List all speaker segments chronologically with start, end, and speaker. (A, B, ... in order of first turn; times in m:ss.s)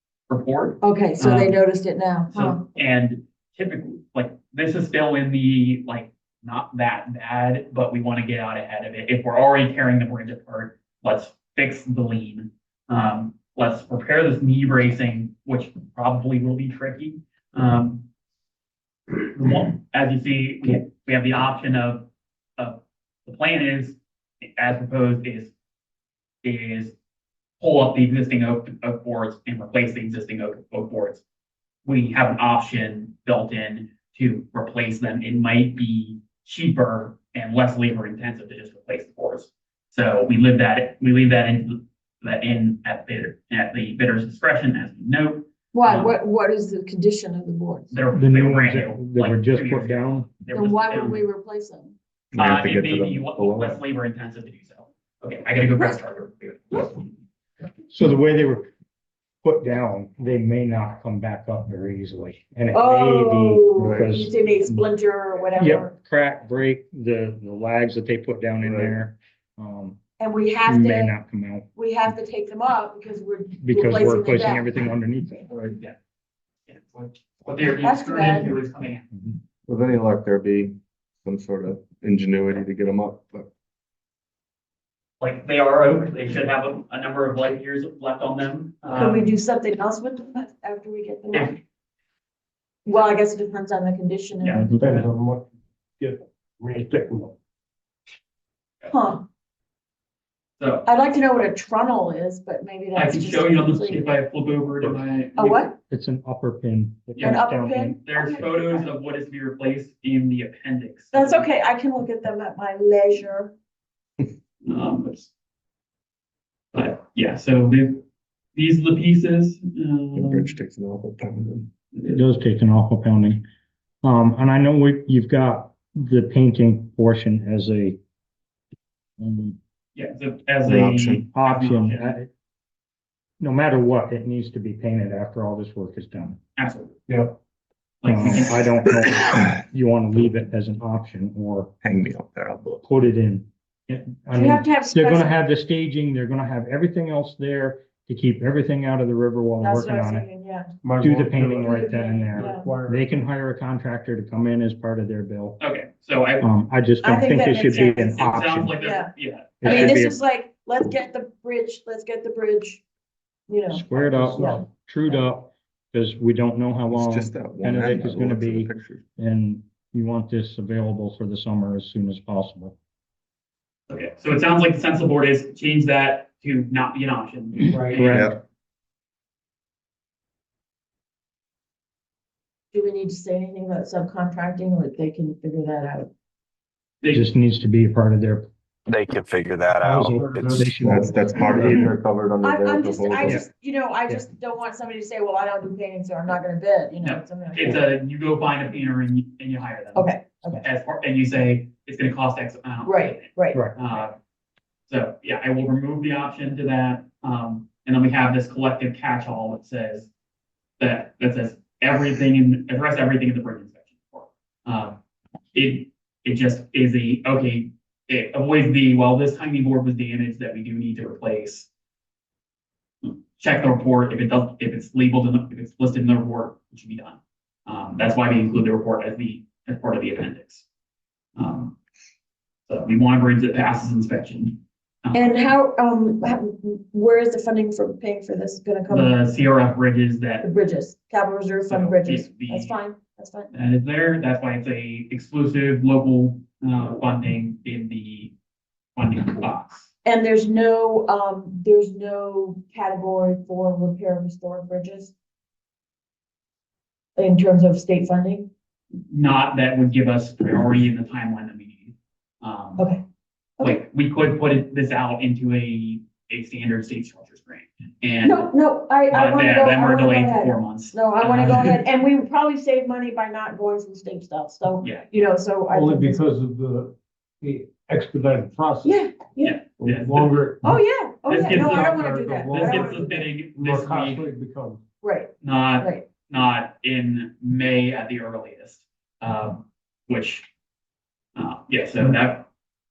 0:00.3-0:01.6 A
0:00.8-0:02.6 B
0:02.3-0:18.0 A
0:19.2-0:22.1 A
0:22.6-0:24.0 A
0:24.6-0:25.5 A
0:26.4-0:26.9 A
0:27.6-0:31.2 A
0:31.8-0:46.2 A
0:45.7-0:47.9 B
0:47.9-0:51.2 A
0:48.1-0:50.3 C
0:50.5-0:52.0 B
0:52.3-0:53.8 D
0:52.4-0:57.1 A
0:57.9-0:58.7 C
0:59.4-1:04.3 C
1:02.7-1:05.9 B
1:03.8-1:04.1 D
1:05.6-1:10.0 C
1:08.6-1:09.0 D
1:10.2-1:11.2 B
1:10.7-1:11.7 C
1:11.8-1:14.7 B
1:13.6-1:15.8 C
1:16.7-1:19.1 A
1:17.8-1:18.6 B
1:19.7-1:23.5 D
1:25.2-1:29.4 A
1:28.9-1:31.6 B
1:31.3-1:31.6 A
1:32.8-1:34.7 B
1:34.4-1:35.1 A
1:34.8-1:35.5 E
1:36.0-1:37.4 E
1:38.9-1:39.2 B
1:40.6-1:40.9 A
1:40.8-1:44.0 B
1:42.9-1:45.6 A
1:45.4-1:45.8 B
1:45.9-1:48.0 C
1:47.2-1:47.4 A
1:47.2-1:48.9 B
1:48.0-1:51.5 A
1:51.1-1:53.5 B
1:54.6-1:55.3 A
1:56.7-1:58.0 A
1:58.6-2:00.5 A
2:00.2-2:01.7 D
2:01.9-2:02.2 A
2:02.1-2:03.4 C
2:04.0-2:08.0 C
2:09.2-2:09.6 C
2:10.0-2:12.2 A
2:10.8-2:11.2 F
2:11.1-2:12.3 C
2:13.4-2:16.4 C
2:16.6-2:17.0 A
2:18.0-2:18.6 A
2:18.1-2:21.7 C
2:21.8-2:22.8 D
2:22.8-2:30.3 C
2:24.4-2:25.3 B
2:29.6-2:30.7 B
2:30.8-2:33.0 E
2:31.0-2:35.6 C
2:31.6-2:32.7 B
2:35.6-2:36.5 A
2:36.4-2:38.7 C
2:37.0-2:38.3 B
2:37.7-2:40.0 A
2:38.8-2:39.1 B
2:39.6-2:40.2 C
2:39.6-2:42.8 B
2:43.5-2:45.2 B
2:43.7-2:52.8 C
2:43.9-2:44.6 E
2:46.9-2:49.0 D
2:53.9-2:58.3 A
2:57.9-2:58.4 C
2:58.1-2:58.4 D
3:02.7-3:06.1 B
3:07.1-3:08.5 C
3:08.9-3:10.5 F
3:09.8-3:11.9 C
3:09.9-3:11.9 E
3:10.7-3:13.4 D
3:12.4-3:17.8 B
3:17.0-3:24.2 A
3:19.9-3:20.7 B
3:22.8-3:23.6 B
3:24.9-3:30.1 A
3:30.8-3:35.0 A
3:35.5-3:41.7 A
3:43.0-3:50.7 A
3:51.4-3:51.8 A
3:52.7-3:55.4 A
3:55.1-3:59.2 B
3:58.9-4:00.5 A
4:00.4-4:03.5 B
4:01.6-4:02.8 A
4:03.5-4:08.3 A
4:09.0-4:09.9 A
4:10.0-4:15.1 B
4:17.2-4:18.5 B
4:19.1-4:22.9 A
4:23.6-4:28.5 A
4:28.2-4:36.2 B
4:29.1-4:31.8 A
4:34.8-4:35.1 A
4:35.7-4:39.0 E
4:38.8-4:39.6 B
4:39.4-4:40.4 A
4:39.8-4:40.7 E
4:40.6-4:43.3 B
4:41.3-4:44.2 A
4:41.4-4:44.8 E
4:45.0-4:46.1 B
4:45.4-4:50.5 A
4:51.4-4:52.5 A